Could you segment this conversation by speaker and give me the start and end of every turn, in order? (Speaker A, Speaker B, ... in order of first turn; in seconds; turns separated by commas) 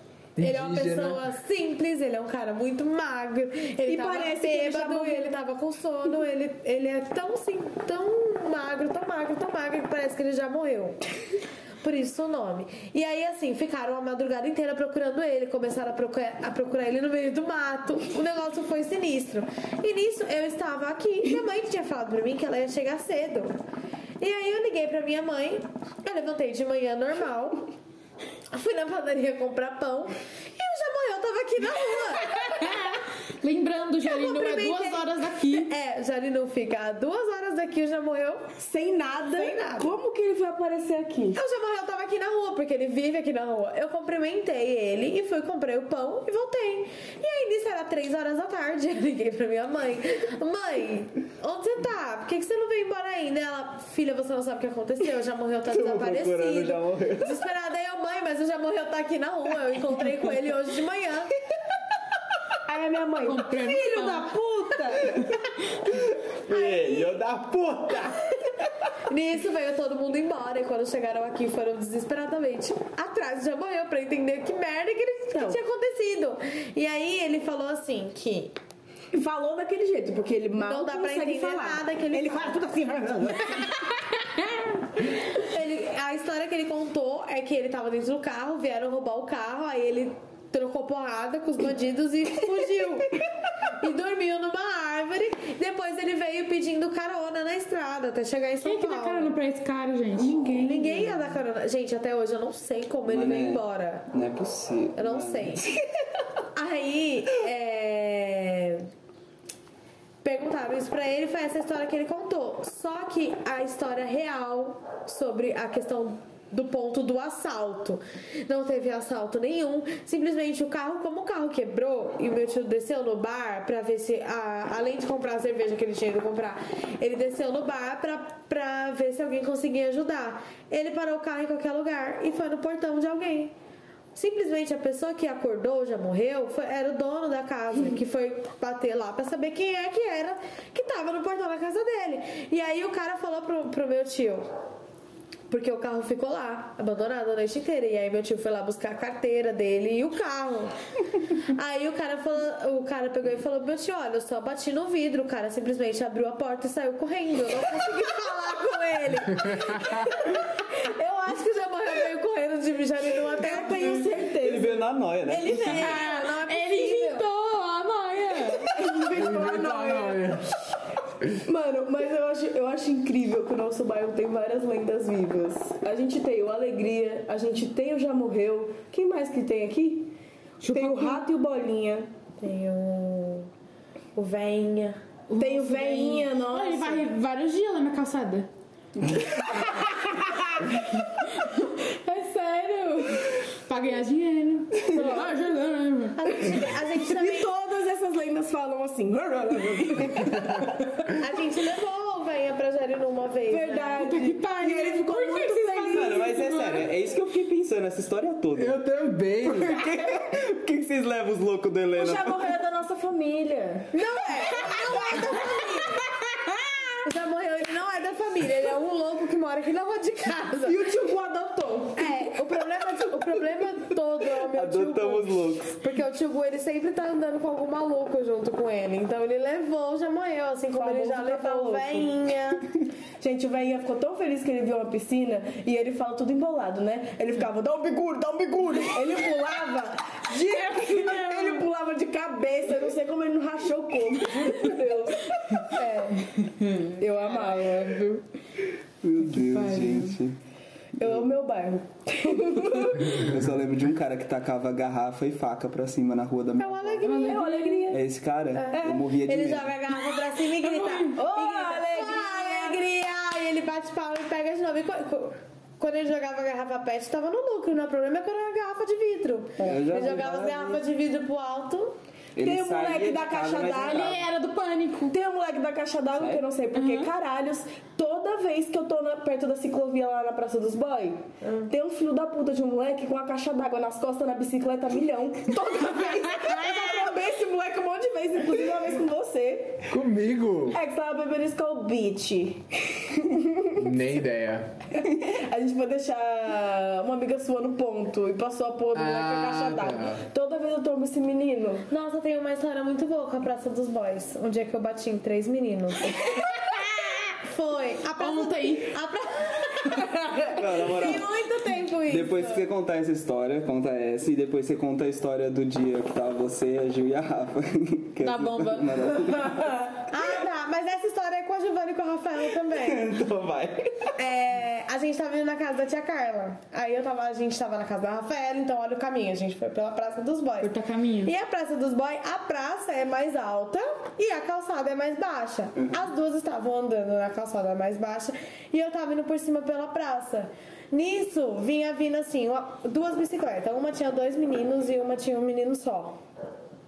Speaker A: 0.4-1.2, Speaker B: 0.4-11.0, Speaker C: 3.9-5.3, Speaker B: 11.8-23.6, Speaker B: 24.2-27.7, Speaker B: 28.5-32.8, Speaker D: 32.4-35.7, Speaker B: 34.0-38.5, Speaker C: 38.6-41.4, Speaker B: 39.3-39.9, Speaker B: 41.3-61.3, Speaker E: 55.7-57.4, Speaker C: 62.7-63.5, Speaker D: 63.2-64.3, Speaker B: 63.7-65.0, Speaker E: 66.5-68.3, Speaker B: 66.5-67.2, Speaker B: 69.1-78.5, Speaker C: 75.3-75.6, Speaker C: 79.1-83.6, Speaker B: 80.6-82.6, Speaker B: 85.0-99.3, Speaker D: 98.6-101.2, Speaker B: 100.3-104.1, Speaker E: 103.1-105.8, Speaker B: 105.0-105.6, Speaker B: 106.5-108.9, Speaker B: 110.2-133.5, Speaker B: 134.1-144.4, Speaker B: 145.5-150.7, Speaker B: 151.5-164.1, Speaker C: 163.4-164.8, Speaker E: 164.4-165.9, Speaker B: 165.3-167.2, Speaker D: 165.5-168.7, Speaker C: 168.6-170.4, Speaker A: 169.1-170.5, Speaker C: 171.4-180.1, Speaker D: 180.6-181.2, Speaker C: 180.7-182.1, Speaker B: 182.4-183.5, Speaker B: 184.1-185.0, Speaker D: 185.3-188.5, Speaker C: 185.4-187.1, Speaker D: 191.0-196.2, Speaker C: 194.9-195.3, Speaker B: 194.9-195.3, Speaker B: 196.2-197.5, Speaker C: 196.5-200.7, Speaker B: 201.2-204.1, Speaker C: 203.5-206.3, Speaker D: 204.0-206.9, Speaker E: 205.9-208.8, Speaker A: 208.5-209.8, Speaker E: 209.4-212.5, Speaker C: 211.9-213.9, Speaker B: 213.9-216.0, Speaker C: 214.8-215.5, Speaker B: 217.0-220.8, Speaker C: 220.6-222.1, Speaker B: 221.9-232.7, Speaker E: 224.5-225.8, Speaker C: 230.8-232.1, Speaker C: 233.2-245.8, Speaker D: 240.7-241.7, Speaker B: 245.7-246.1, Speaker D: 245.8-247.7, Speaker C: 247.0-248.2, Speaker E: 249.0-250.4, Speaker D: 249.3-250.2, Speaker C: 251.0-253.2, Speaker E: 251.0-251.2, Speaker E: 253.1-257.1, Speaker B: 256.6-257.7, Speaker D: 257.0-257.9, Speaker C: 257.1-258.0, Speaker E: 257.9-259.7, Speaker B: 258.6-271.9, Speaker D: 260.6-261.1, Speaker C: 261.1-262.8, Speaker E: 269.6-270.8, Speaker E: 272.4-274.2, Speaker C: 272.4-274.1, Speaker D: 273.9-275.1, Speaker C: 275.1-289.9, Speaker E: 276.1-276.4, Speaker D: 276.7-277.1, Speaker B: 281.4-281.7, Speaker A: 289.9-290.8, Speaker C: 290.7-293.8, Speaker A: 293.8-294.7, Speaker C: 294.9-301.9, Speaker A: 298.9-300.2, Speaker B: 301.9-306.4, Speaker B: 307.4-312.6, Speaker D: 308.2-308.9, Speaker E: 310.5-311.3, Speaker E: 312.1-319.9, Speaker D: 318.3-318.8, Speaker B: 320.1-323.1, Speaker E: 322.7-324.1, Speaker B: 324.1-330.7, Speaker D: 330.6-331.3, Speaker B: 331.2-346.2